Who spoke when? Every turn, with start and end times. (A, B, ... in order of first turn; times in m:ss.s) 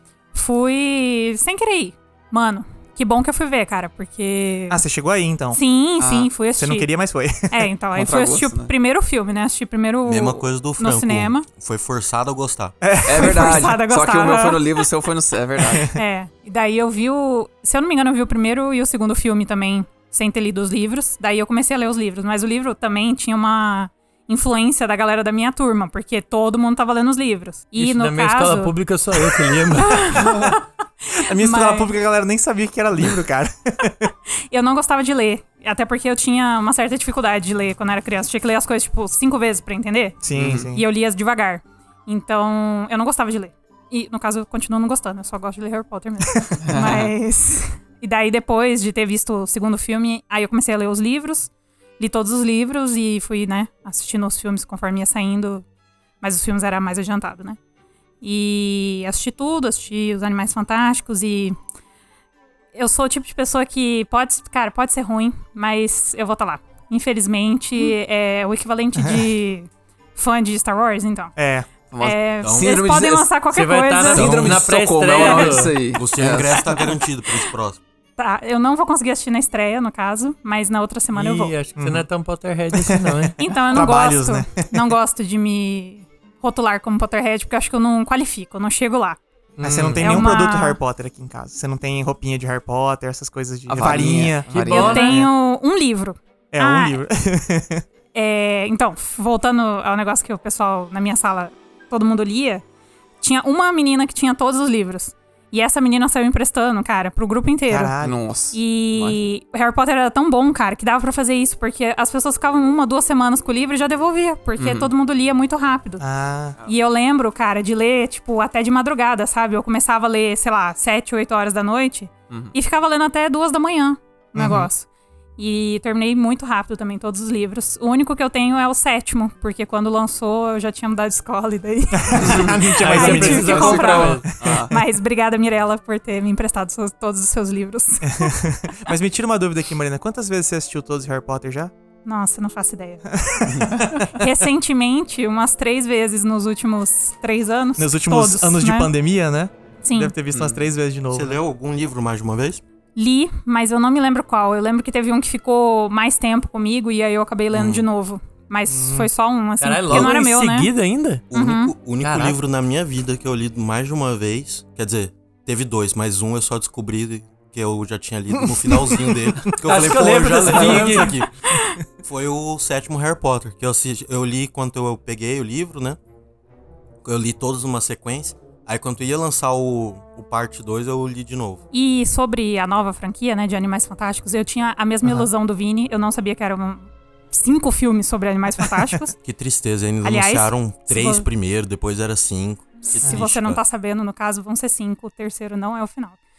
0:00.3-0:04.8 A
0:04.7-0:05.6 B
0:05.5-0:06.9 A
0:06.0-0:06.3 C
0:06.5-0:07.7 B
0:07.5-0:11.5 A
0:07.9-0:08.7 C
0:10.1-0:12.8 D
0:12.8-0:13.8 B
0:13.0-0:15.9 C
0:13.3-0:14.8 A
0:15.9-0:28.7 A
0:27.8-0:30.2 E
0:29.7-0:31.9 A
0:30.1-0:30.6 B
0:31.2-0:34.1 B
0:34.5-0:40.2 A
0:40.2-0:40.8 B
0:40.4-0:40.7 C
0:40.7-0:55.6 A
0:46.6-0:47.1 C
0:56.2-0:57.6 A
0:58.2-1:01.6 A
1:02.7-1:11.4 A
1:09.0-1:09.2 B
1:11.4-1:11.7 B
1:11.9-1:13.4 C
1:12.0-1:14.3 A
1:12.4-1:12.8 D
1:13.5-1:15.8 E
1:14.1-1:16.9 C
1:14.1-1:14.6 D
1:15.2-1:15.6 A
1:15.9-1:17.8 D
1:16.6-1:17.5 A
1:18.2-1:21.5 A
1:21.1-1:23.4 E
1:21.8-1:22.1 B
1:22.7-1:24.7 B
1:23.4-1:29.2 A
1:29.6-1:30.3 E
1:29.6-1:35.3 B
1:30.0-1:30.8 A
1:33.7-1:35.0 C
1:34.5-1:35.2 E
1:34.6-1:37.0 A
1:36.5-1:37.8 B
1:38.1-1:42.6 A
1:43.2-1:47.9 A
1:47.7-1:48.1 B
1:48.0-1:49.2 C
1:48.5-1:56.0 A
1:54.6-1:54.9 C
1:56.0-1:56.6 B
1:56.6-2:04.9 A
2:02.3-2:02.5 C
2:04.3-2:04.7 B
2:05.4-2:18.4 A
2:12.0-2:14.8 B
2:12.2-2:12.6 C
2:12.8-2:14.2 E
2:13.1-2:14.7 C
2:18.0-2:21.7 B
2:22.0-2:23.0 A
2:23.1-2:24.1 B
2:23.5-2:24.0 C
2:24.1-2:28.9 A
2:27.8-2:31.4 B
2:29.8-2:30.1 A
2:30.3-2:30.6 C
2:31.1-2:32.6 D
2:33.0-2:40.7 A
2:37.5-2:37.8 D
2:38.7-2:39.1 B
2:39.6-2:41.2 E
2:41.3-2:56.0 D
2:41.3-2:41.7 A
2:42.0-2:42.4 E
2:49.6-2:51.2 E
2:50.4-2:51.0 C
2:57.0-3:01.6 D
3:01.7-3:09.1 A
3:08.6-3:08.8 B
3:09.2-3:13.6 D
3:10.0-3:11.2 A
3:12.9-3:16.2 A
3:13.0-3:13.3 B